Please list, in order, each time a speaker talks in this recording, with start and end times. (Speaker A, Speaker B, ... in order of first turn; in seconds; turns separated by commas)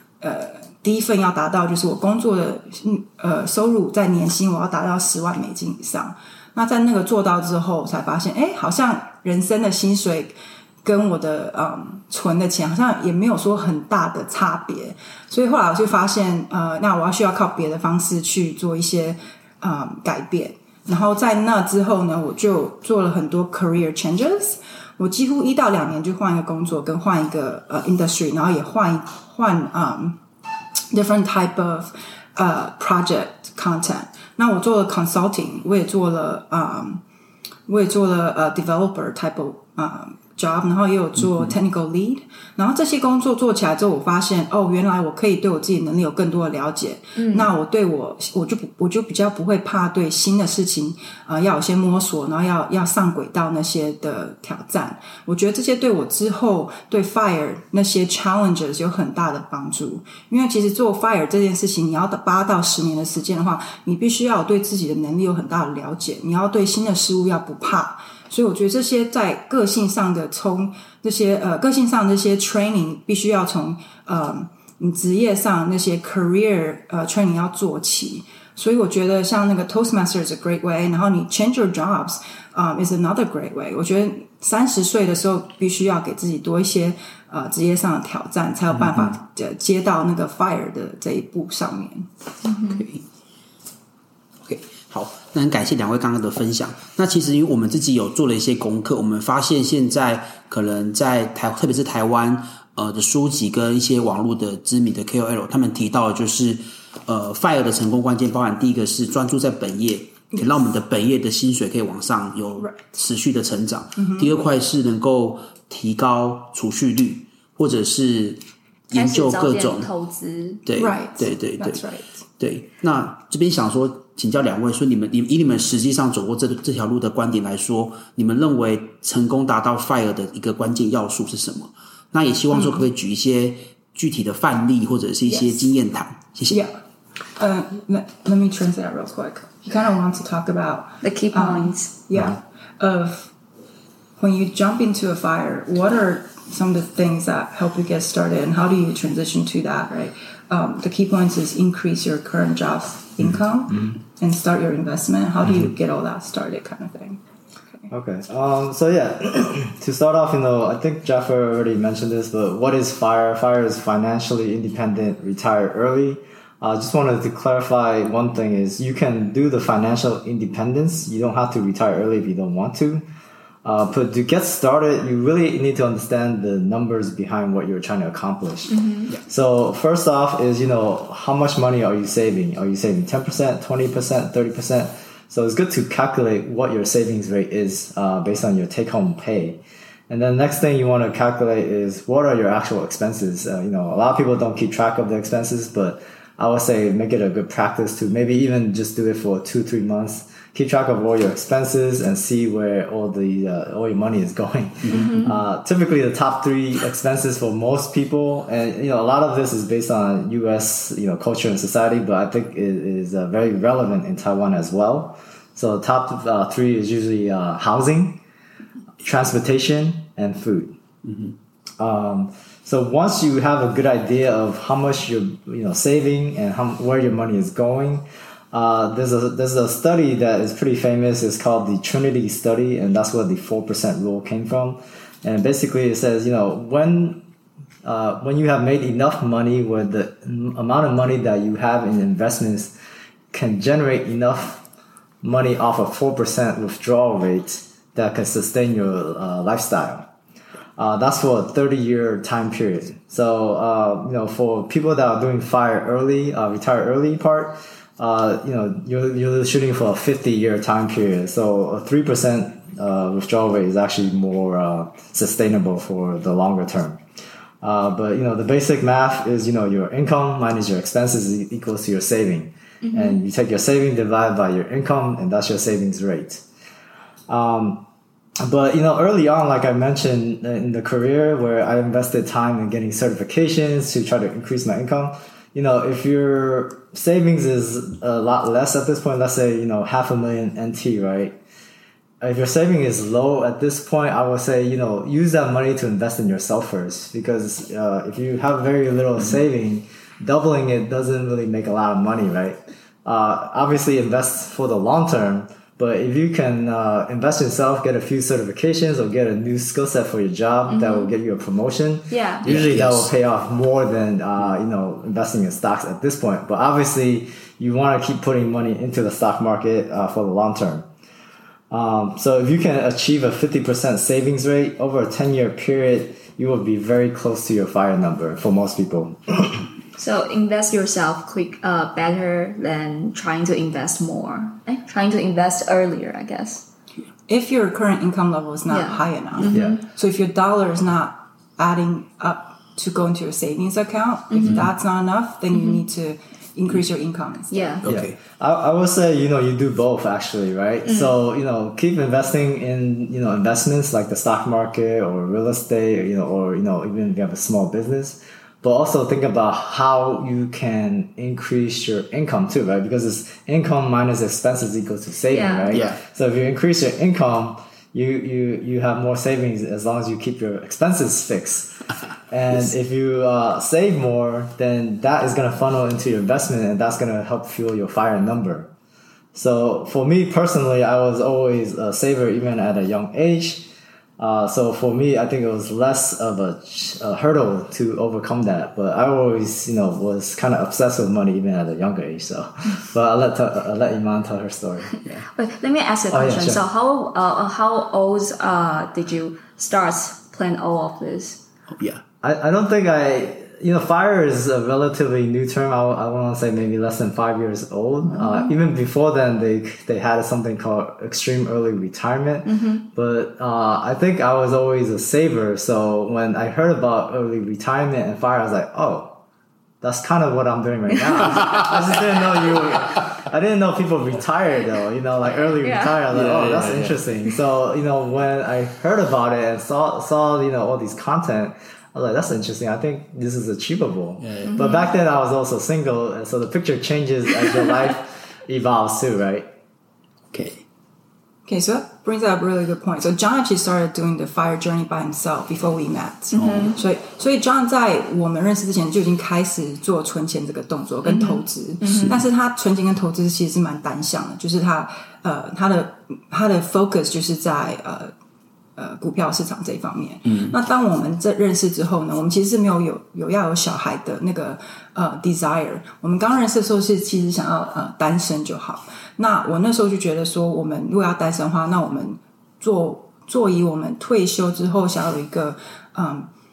Speaker A: 0.2-30.2, Speaker A: 30.9-37.0, Speaker A: 37.7-92.1, Speaker B: 41.2-41.5, Speaker C: 47.2-47.5, Speaker B: 88.8-89.1, Speaker C: 92.4-92.9, Speaker B: 92.7-93.0, Speaker B: 94.5-119.9, Speaker A: 114.0-114.3, Speaker C: 118.9-120.6, Speaker B: 120.7-121.8, Speaker A: 120.8-122.1, Speaker B: 122.4-136.6, Speaker A: 132.5-132.9, Speaker A: 135.3-135.7, Speaker A: 137.4-143.3, Speaker C: 141.0-141.9, Speaker A: 144.2-157.2, Speaker D: 157.9-173.1, Speaker D: 173.6-218.2, Speaker C: 178.7-179.1, Speaker B: 204.8-205.2, Speaker C: 204.9-205.3, Speaker D: 219.0-220.8, Speaker B: 221.1-221.3, Speaker D: 221.8-237.2, Speaker D: 237.8-242.7, Speaker D: 243.3-244.6, Speaker D: 245.2-250.1, Speaker D: 250.8-267.0, Speaker D: 267.6-276.4, Speaker C: 272.8-273.2, Speaker D: 277.3-277.9, Speaker D: 278.4-291.4, Speaker D: 292.2-320.9, Speaker C: 310.7-311.1, Speaker C: 312.1-312.5, Speaker B: 312.4-313.1, Speaker D: 321.7-329.7, Speaker C: 330.0-336.6, Speaker A: 337.3-347.9, Speaker C: 338.7-339.8, Speaker D: 339.5-339.8, Speaker C: 344.3-344.6, Speaker B: 344.4-344.7, Speaker C: 345.5-345.8, Speaker C: 347.5-347.9, Speaker B: 347.8-348.1, Speaker D: 347.9-371.8, Speaker C: 350.9-351.1, Speaker C: 365.3-365.8, Speaker B: 365.7-366.0, Speaker D: 372.3-378.7, Speaker D: 379.3-394.9, Speaker C: 395.3-401.4, Speaker D: 396.1-396.6, Speaker B: 401.8-402.0, Speaker D: 402.2-419.2, Speaker C: 408.1-408.5, Speaker C: 412.4-412.8, Speaker D: 419.8-439.5, Speaker C: 421.2-421.5, Speaker C: 425.6-426.0, Speaker B: 426.1-427.0, Speaker B: 434.2-434.6, Speaker C: 434.4-434.9, Speaker B: 440.3-440.6, Speaker A: 441.5-458.1, Speaker C: 446.3-446.8, Speaker B: 446.4-446.7, Speaker C: 451.1-452.2, Speaker A: 458.8-476.3, Speaker B: 460.3-460.5